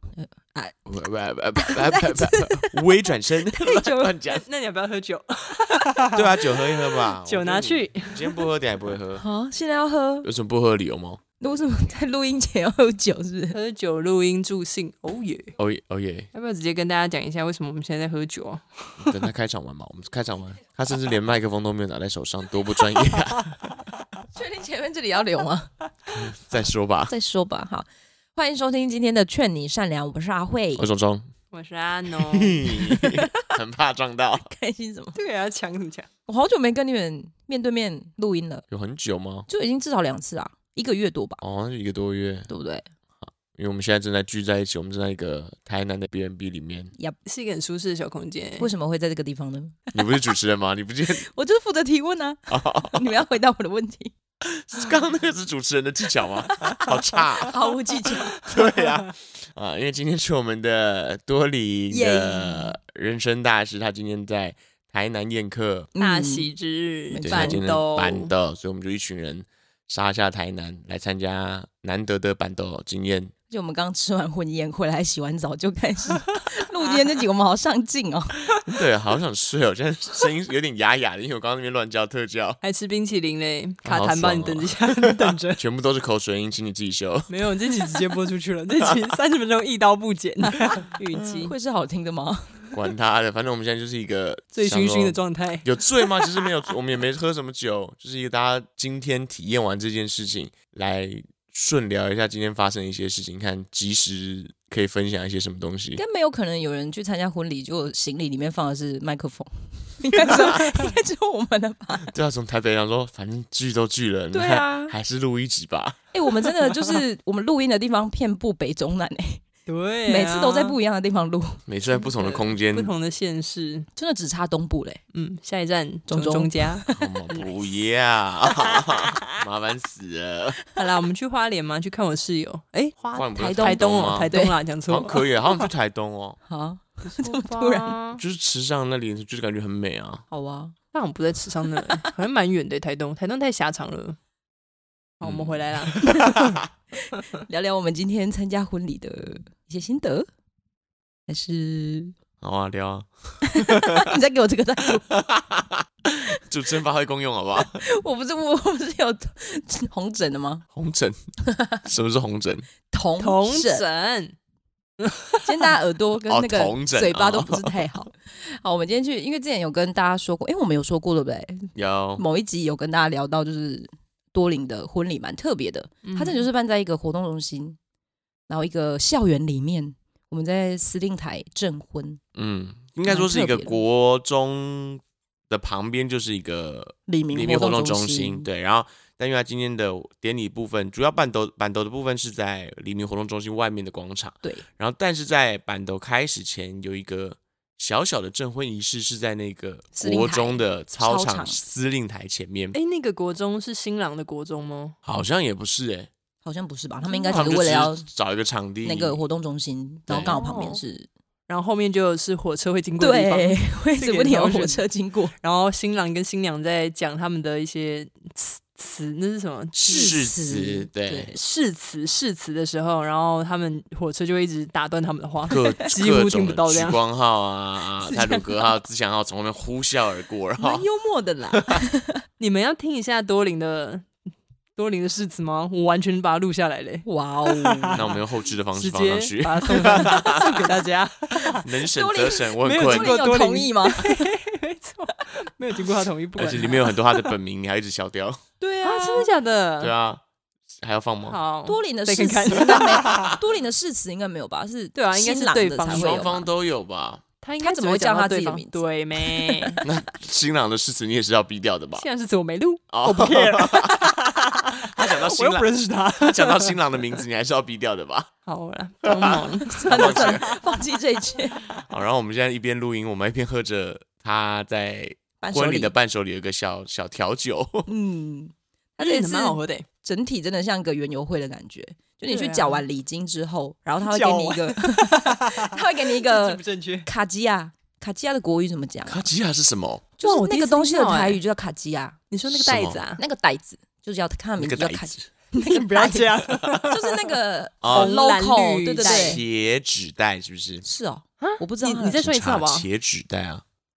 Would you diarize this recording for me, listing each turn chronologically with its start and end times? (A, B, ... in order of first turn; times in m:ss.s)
0:00.2-0:00.8 A
0:00.9-0:04.4 B
0:01.5-0:02.8 A
0:03.5-0:04.2 A
0:04.3-0:08.4 C
0:06.1-0:09.2 B
0:09.2-0:10.3 A
0:10.2-0:11.2 B
0:11.4-0:13.6 A
0:13.5-0:15.5 C
0:15.6-0:16.3 B
0:16.3-0:19.2 C
0:19.0-0:23.7 B
0:24.3-0:25.7 A
0:26.2-0:27.1 B
0:27.1-0:30.8 A
0:30.8-0:31.3 B
0:31.5-0:32.6 C
0:32.2-0:34.5 B
0:32.7-0:33.4 A
0:34.4-0:35.2 A
0:35.1-0:36.1 C
0:36.3-0:38.6 A
0:38.7-0:39.5 B
0:39.5-0:41.4 A
0:41.4-0:42.5 B
0:42.5-0:42.8 A
0:43.2-0:46.9 B
0:47.2-0:48.7 C
0:48.6-0:50.1 A
0:49.9-0:51.2 B
0:51.2-0:54.1 A
0:52.5-0:53.0 B
0:54.4-0:57.5 B
0:57.4-0:58.3 A
0:58.4-1:05.9 B
0:58.5-0:59.0 C
1:01.9-1:02.8 A
1:06.0-1:06.5 A
1:06.0-1:08.3 C
1:07.1-1:07.6 A
1:07.3-1:13.3 B
1:13.5-1:18.5 A
1:18.6-1:22.6 B
1:22.6-1:25.6 C
1:23.8-1:28.0 B
1:27.3-1:31.5 C
1:31.4-1:32.5 A
1:32.7-1:46.0 B
1:34.5-1:35.7 C
1:46.0-1:52.1 A
1:52.1-1:56.0 B
1:54.3-1:54.9 A
1:56.1-1:59.4 A
1:59.6-2:00.8 C
2:00.0-2:01.6 A
2:01.7-2:02.9 B
2:02.1-2:03.9 C
2:04.0-2:05.0 A
2:05.1-2:07.5 C
2:06.1-2:07.0 A
2:07.0-2:10.6 B
2:10.7-2:15.6 C
2:13.1-2:14.3 B
2:13.3-2:14.5 A
2:14.9-2:16.4 B
2:16.5-2:17.9 A
2:17.0-2:18.2 C
2:18.2-2:20.2 B
2:20.3-2:20.7 A
2:20.9-2:24.2 C
2:25.2-2:26.4 C
2:25.2-2:26.6 B
2:26.0-2:26.4 A
2:27.0-2:30.3 A
2:31.3-2:32.1 A
2:32.4-2:34.0 B
2:33.4-2:35.0 A
2:35.1-2:37.8 B
2:37.6-2:40.6 A
2:40.7-2:41.2 B
2:41.4-2:41.8 A
2:41.8-2:42.7 B
2:42.9-2:43.8 A
2:43.2-2:44.3 C
2:45.0-2:45.4 C
2:45.4-2:57.8 A
2:46.3-2:47.8 B
2:51.7-2:52.2 B
2:56.0-2:56.4 C
2:58.5-3:02.2 A
3:02.3-3:22.8 B
3:03.1-3:03.8 A
3:07.1-3:08.5 A
3:20.0-3:21.6 A
3:22.7-3:25.0 C
3:25.0-3:26.1 B
3:26.4-3:28.1 A
3:27.1-3:27.5 C
3:27.3-3:29.2 B
3:28.8-3:31.1 A
3:30.1-3:30.4 B
3:30.2-3:30.8 C
3:31.5-3:34.8 C
3:33.0-3:35.3 A
3:35.4-3:40.2 C
3:39.7-3:41.3 B
3:39.8-3:41.4 A
3:41.3-3:47.0 C
3:45.5-3:50.8 B
3:48.0-3:48.6 A
3:50.6-3:52.1 A
3:52.4-3:54.1 C
3:54.8-3:58.2 C
3:57.0-3:58.0 A
3:58.0-4:00.7 B
3:58.7-4:01.6 C
3:59.8-4:00.6 A
4:01.4-4:04.3 A
4:01.6-4:03.2 B
4:02.6-4:07.0 C
4:06.4-4:08.4 B
4:08.6-4:09.3 A
4:08.8-4:09.9 C
4:09.8-4:10.2 B
4:10.8-4:11.4 B
4:11.3-4:13.3 C
4:11.6-4:16.5 A
4:13.0-4:13.3 B
4:15.0-4:16.3 C
4:15.9-4:17.2 B
4:17.4-4:19.8 C
4:17.6-4:19.9 A
4:19.8-4:22.0 B
4:22.0-4:26.8 C
4:22.9-4:24.2 B
4:24.7-4:28.3 B
4:28.5-4:30.4 C
4:29.0-4:30.6 B
4:29.6-4:31.6 A
4:31.7-4:37.9 B
4:35.4-4:35.9 A
4:37.8-4:49.3 A
4:39.0-4:39.8 C
4:42.2-4:42.8 C
4:44.0-4:47.1 C
4:49.1-4:50.1 B
4:50.2-4:52.1 A
4:50.2-4:51.4 C
4:52.3-4:53.2 C
4:52.5-4:53.0 B
4:53.2-4:59.4 A
4:54.6-4:55.3 B
4:55.6-4:59.4 C
4:56.5-4:56.8 B
4:57.8-4:58.1 B
4:59.0-5:00.8 B
5:00.8-5:02.3 A
5:01.4-5:02.9 C
5:02.2-5:03.6 B